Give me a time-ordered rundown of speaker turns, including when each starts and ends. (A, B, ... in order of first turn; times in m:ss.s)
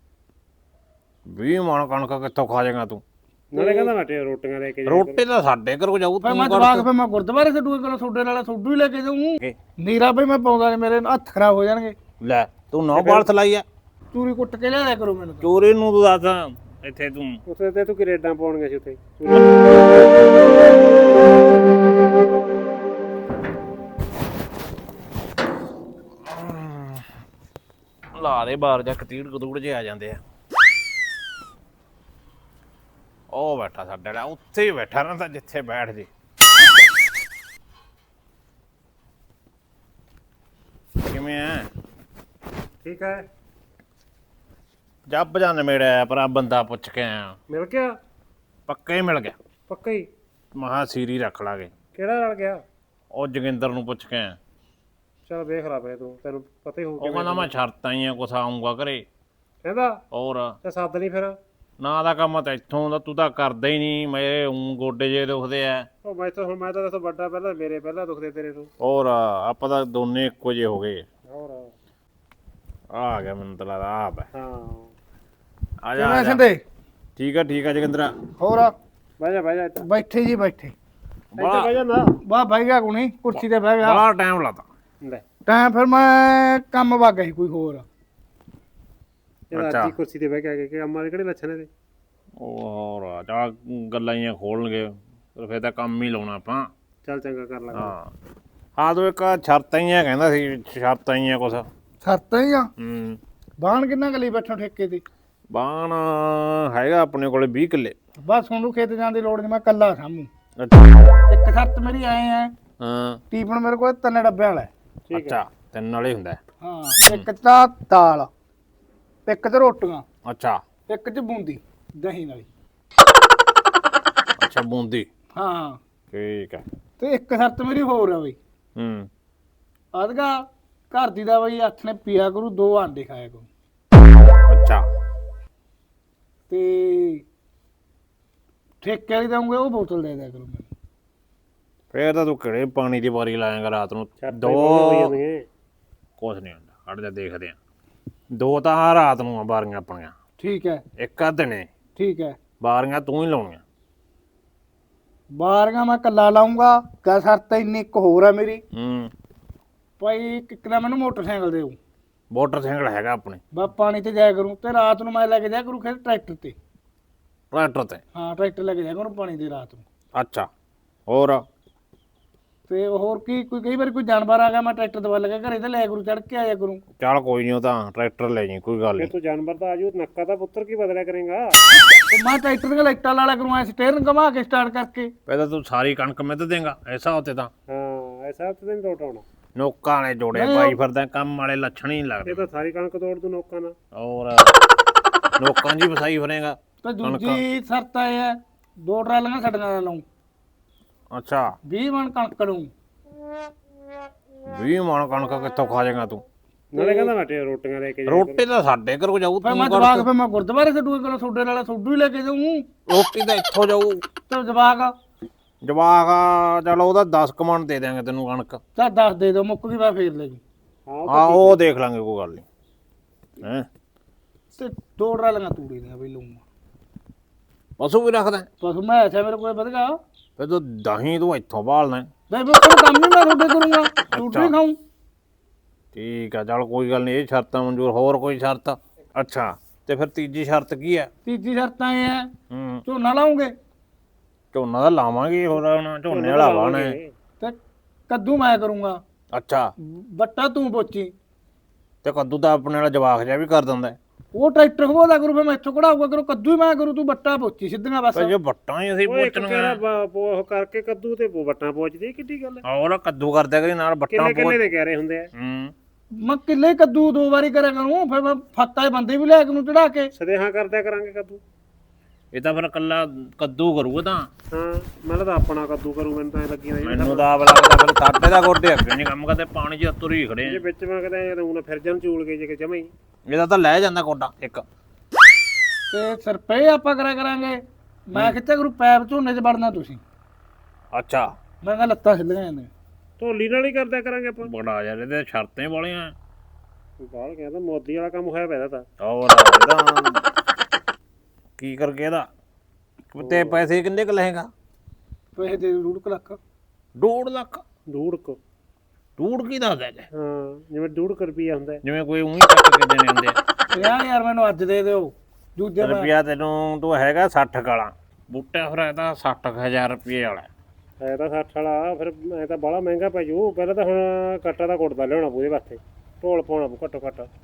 0:01.3-0:03.0 A
0:03.5-0:05.2 B
0:03.6-0:03.9 C
0:04.9-0:06.9 A
0:06.2-0:12.0 C
0:12.2-0:13.6 A
0:12.9-0:13.3 B
0:14.1-0:15.5 C
0:15.4-0:17.4 A
0:17.5-0:19.5 B
0:26.2-0:27.1 A
0:28.2-0:30.2 A
0:33.3-0:36.1 A
0:41.0-0:41.7 A
0:42.8-0:43.2 B
0:45.1-0:47.4 A
0:47.5-0:47.9 B
0:48.7-0:49.4 A
0:49.7-0:50.1 B
0:50.6-0:51.7 A
0:52.0-0:52.6 B
0:53.1-0:54.4 A
0:55.3-0:57.6 B
0:57.0-0:59.0 A
0:59.6-1:00.0 B
1:00.1-1:00.6 A
1:00.6-1:01.4 B
1:01.8-1:05.9 A
1:06.0-1:08.7 B
1:08.8-1:11.0 A
1:11.3-1:11.7 B
1:12.9-1:14.3 A
1:14.3-1:14.9 B
1:15.8-1:16.4 A
1:16.0-1:16.6 C
1:17.2-1:18.1 A
1:18.4-1:18.7 C
1:19.2-1:19.8 B
1:19.8-1:20.7 C
1:21.3-1:21.7 A
1:21.4-1:22.2 B
1:22.2-1:24.0 C
1:23.4-1:24.7 A
1:25.5-1:27.8 C
1:29.5-1:31.7 B
1:29.5-1:29.9 A
1:32.4-1:36.7 A
1:37.1-1:38.0 B
1:37.7-1:38.1 A
1:38.8-1:41.7 A
1:42.0-1:42.7 C
1:42.8-1:43.2 A
1:43.6-1:45.0 C
1:45.5-1:48.0 A
1:48.2-1:50.3 C
1:50.6-1:51.1 A
1:51.3-1:52.5 C
1:52.8-1:53.2 A
1:53.3-1:54.7 C
1:55.1-1:55.4 B
1:55.1-1:56.4 A
1:56.6-1:58.3 C
1:57.0-1:57.2 A
1:59.3-2:00.0 C
2:00.3-2:00.6 A
2:00.9-2:02.5 C
2:04.4-2:05.1 A
2:05.4-2:05.8 C
2:06.1-2:06.6 A
2:07.0-2:08.4 C
2:08.8-2:09.1 A
2:10.0-2:10.4 C
2:10.9-2:13.5 C
2:14.5-2:14.8 A
2:16.5-2:17.2 C
2:18.8-2:20.7 C
2:21.9-2:25.2 A
2:24.2-2:25.4 B
2:26.2-2:27.6 A
2:28.3-2:30.1 A
2:30.4-2:30.8 C
2:31.0-2:31.7 A
2:32.0-2:32.4 C
2:32.6-2:33.6 A
2:35.4-2:38.6 C
2:38.7-2:39.1 A
2:40.0-2:41.8 C
2:42.3-2:43.4 A
2:43.5-2:46.6 C
2:47.5-2:48.0 A
2:48.2-2:49.8 C
2:50.2-2:50.5 A
2:51.1-2:51.4 A
2:52.7-2:56.8 C
2:57.0-2:59.1 A
2:59.0-3:01.6 B
3:02.1-3:05.1 C
3:05.3-3:07.5 A
3:07.7-3:09.2 B
3:09.6-3:12.5 A
3:10.3-3:10.8 C
3:12.3-3:13.7 B
3:14.0-3:14.6 A
3:15.4-3:17.4 A
3:16.8-3:20.0 C
3:21.1-3:21.6 A
3:21.7-3:22.7 C
3:24.5-3:26.2 A
3:26.7-3:28.4 B
3:26.8-3:27.1 C
3:28.1-3:30.1 A
3:29.4-3:32.6 C
3:32.9-3:34.0 A
3:34.3-3:34.9 C
3:35.6-3:38.6 A
3:38.8-3:40.4 C
3:40.9-3:41.6 B
3:41.1-3:42.4 A
3:43.4-3:43.7 A
3:44.6-3:46.4 C
3:47.8-3:48.5 A
3:48.6-3:50.0 C
3:50.4-3:52.1 A
3:52.3-3:54.8 C
3:54.1-3:54.6 A
3:55.9-4:01.1 A
4:01.2-4:02.3 C
4:02.5-4:02.8 A
4:02.9-4:03.5 C
4:04.5-4:07.0 A
4:06.1-4:07.1 B
4:08.1-4:09.0 C
4:09.3-4:09.7 A
4:09.8-4:11.1 C
4:12.0-4:14.0 A
4:14.3-4:18.3 C
4:18.2-4:19.8 A
4:19.1-4:22.6 B
4:22.6-4:24.6 A
4:24.1-4:25.3 B
4:25.4-4:25.7 A
4:26.2-4:30.1 C
4:30.2-4:31.4 B
4:32.3-4:34.3 A
4:34.5-4:37.3 B
4:36.8-4:40.6 A
4:40.4-4:42.9 B
4:43.3-4:44.6 A
4:45.9-4:50.0 C
4:50.9-4:51.3 A
4:51.6-4:52.7 C
4:53.2-4:54.5 B
4:54.4-4:56.1 A
4:57.0-4:58.8 B
4:59.0-5:00.2 A
5:01.6-5:02.3 A
5:03.1-5:04.5 A
5:03.2-5:03.6 B
5:05.4-5:06.4 C
5:07.0-5:07.6 A
5:07.9-5:08.4 B
5:09.2-5:10.1 A
5:10.2-5:11.8 B
5:11.8-5:13.4 A
5:13.7-5:16.1 C
5:15.8-5:20.5 A
5:21.0-5:27.3 B